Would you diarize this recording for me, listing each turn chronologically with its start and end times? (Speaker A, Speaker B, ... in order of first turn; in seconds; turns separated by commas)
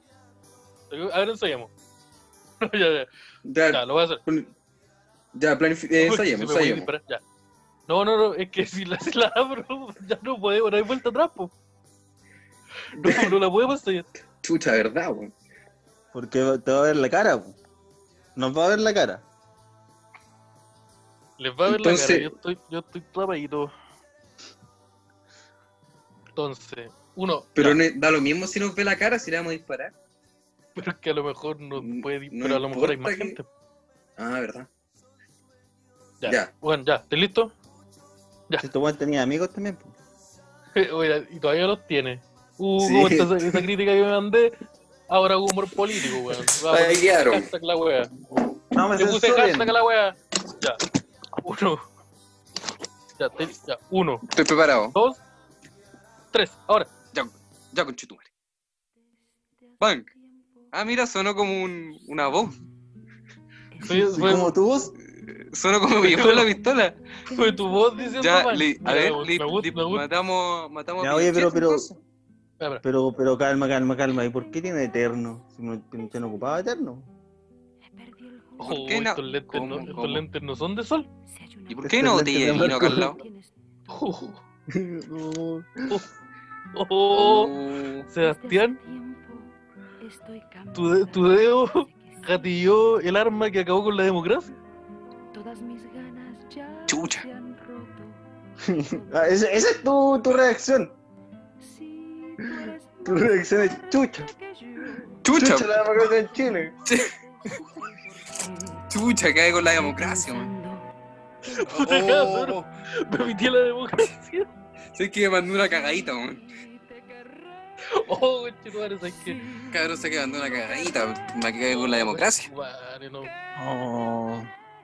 Speaker A: 0.9-1.7, Speaker A: 2.6-3.1, Speaker B: 3.4-4.5, Speaker A: 3.7-4.2, Speaker B: 5.3-6.9, Speaker A: 6.0-7.2, Speaker A: 7.9-11.5, Speaker A: 12.9-14.1, Speaker B: 13.0-13.3, Speaker B: 14.4-15.3, Speaker C: 16.1-17.6, Speaker C: 18.4-19.2, Speaker A: 21.4-23.7, Speaker B: 21.7-22.3, Speaker A: 26.4-27.8, Speaker B: 27.6-29.9, Speaker A: 30.8-33.5, Speaker B: 31.8-33.4, Speaker B: 34.2-34.7, Speaker A: 36.2-37.5, Speaker C: 38.6-39.9, Speaker A: 40.8-44.5, Speaker B: 42.8-43.6, Speaker A: 45.1-48.1, Speaker B: 46.7-47.5, Speaker C: 48.7-49.7, Speaker A: 48.9-50.8, Speaker A: 51.4-51.8, Speaker A: 53.2-54.2, Speaker B: 54.3-54.9, Speaker A: 54.9-55.2, Speaker A: 56.3-56.9, Speaker B: 57.1-58.3, Speaker D: 59.1-60.8, Speaker B: 59.8-60.1, Speaker B: 60.7-62.5, Speaker D: 63.7-64.4, Speaker A: 63.8-64.5, Speaker C: 64.1-64.9, Speaker B: 65.1-67.0, Speaker A: 66.0-66.5, Speaker D: 67.2-69.7, Speaker A: 67.3-70.0, Speaker B: 68.2-71.9, Speaker C: 71.0-72.0, Speaker C: 72.8-77.1, Speaker D: 74.4-75.2, Speaker D: 77.8-79.0, Speaker B: 78.6-80.2, Speaker A: 78.6-81.1, Speaker D: 79.7-80.0, Speaker D: 81.1-84.2, Speaker B: 81.7-83.2, Speaker C: 81.8-83.1, Speaker A: 83.9-84.4, Speaker C: 84.7-85.9, Speaker A: 86.7-87.5, Speaker B: 87.1-88.0, Speaker A: 88.1-88.8, Speaker D: 88.2-92.9, Speaker A: 90.7-94.5, Speaker D: 95.3-98.2, Speaker B: 96.9-97.2, Speaker C: 98.7-100.9, Speaker D: 99.1-99.3, Speaker D: 101.6-105.3, Speaker C: 103.0-104.3, Speaker B: 105.2-105.9, Speaker C: 105.3-106.7, Speaker D: 106.0-110.9, Speaker B: 106.8-107.1, Speaker B: 108.9-110.5, Speaker D: 111.4-112.5, Speaker A: 111.5-114.5, Speaker B: 111.8-112.5, Speaker B: 114.9-116.4, Speaker D: 115.7-117.5, Speaker A: 117.8-119.4, Speaker D: 119.0-121.3, Speaker B: 119.7-122.5, Speaker A: 121.7-123.3, Speaker C: 123.6-124.5